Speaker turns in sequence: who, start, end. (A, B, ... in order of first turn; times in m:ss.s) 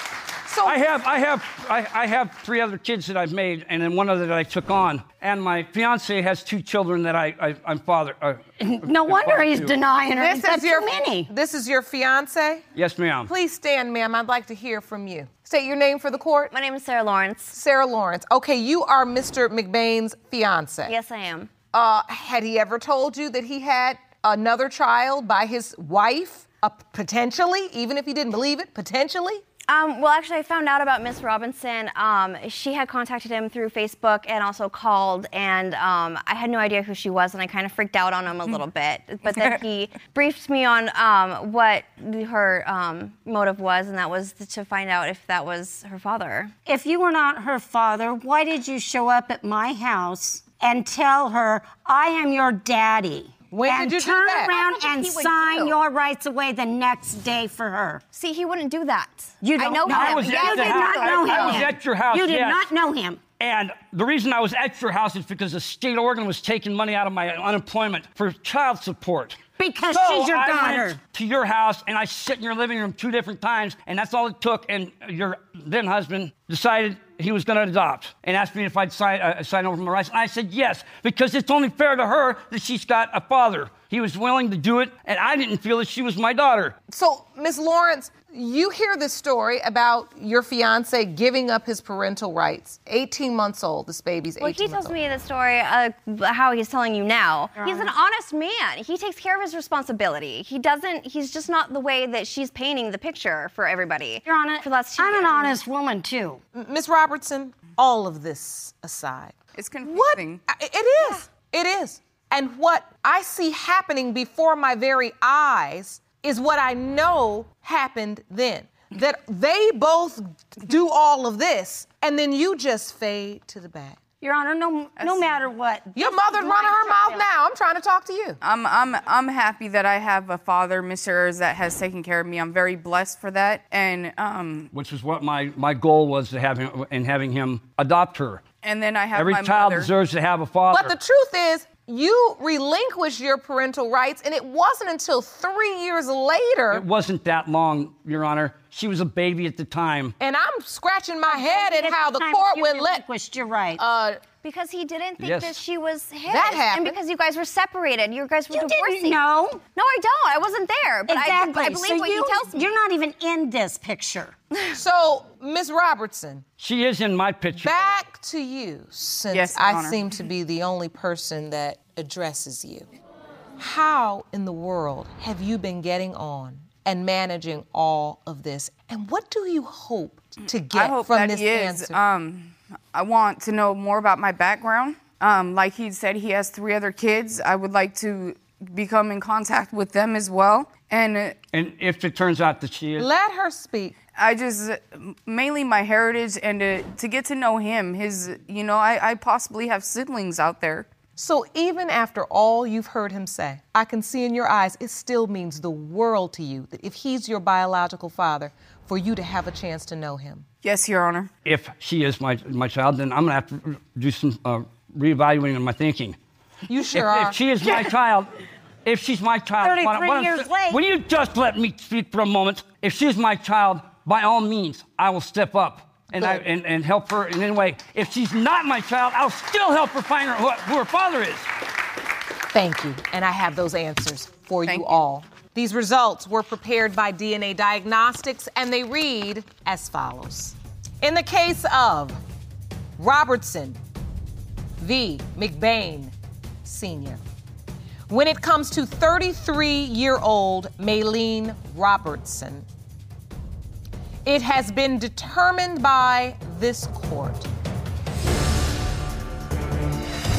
0:00.4-0:00.8 A
0:00.6-0:09.8 B
0:08.6-0:11.3 C
0:10.1-0:12.6 A
0:12.7-0:13.3 B
0:13.2-0:16.5 A
0:16.5-0:17.5 D
0:17.5-0:20.9 A
0:20.8-0:21.5 D
0:21.7-0:29.4 A
0:29.7-0:46.5 D
0:46.6-0:58.0 C
0:53.5-0:54.5 A
0:54.4-0:55.8 D
0:58.1-1:01.7 D
0:59.4-1:03.2 C
0:59.8-1:02.7 B
1:03.4-1:26.7 B
1:09.6-1:11.0 C
1:26.9-1:35.0 A
1:34.4-1:45.6 D
1:37.6-1:37.9 C
1:44.2-1:46.4 C
1:46.5-2:04.0 A
1:49.6-1:50.4 E
2:04.2-2:07.2 C
2:05.0-2:05.3 E
2:05.9-2:08.4 A
2:08.4-2:14.7 E
2:14.7-2:18.4 B
2:18.6-2:19.9 E
2:19.1-2:20.9 B
2:20.7-2:26.8 A
2:26.7-2:30.1 B
2:30.2-2:33.0 A
2:31.3-2:33.8 C
2:33.8-2:34.2 A
2:34.4-2:42.7 D
2:35.2-2:35.6 B
2:36.2-2:37.0 A
2:38.5-2:39.6 C
2:41.0-2:44.3 C
2:44.7-2:46.4 A
2:46.6-2:47.9 B
2:47.6-2:52.9 A
2:49.3-2:50.0 E
2:53.6-3:02.0 A
3:00.7-3:11.4 E
3:11.5-3:13.1 B
3:13.0-3:14.0 A
3:14.2-3:20.9 E
3:21.2-3:30.4 A
3:30.6-3:31.3 E
3:31.4-3:36.2 B
3:36.7-3:37.4 A
3:36.9-3:38.3 B
3:38.8-3:51.5 B
3:39.6-3:40.8 C
3:52.5-4:02.2 A
3:54.6-3:55.0 E
4:03.0-4:03.8 A
4:04.8-4:07.2 A
4:08.1-4:12.7 A
4:14.2-4:17.5 A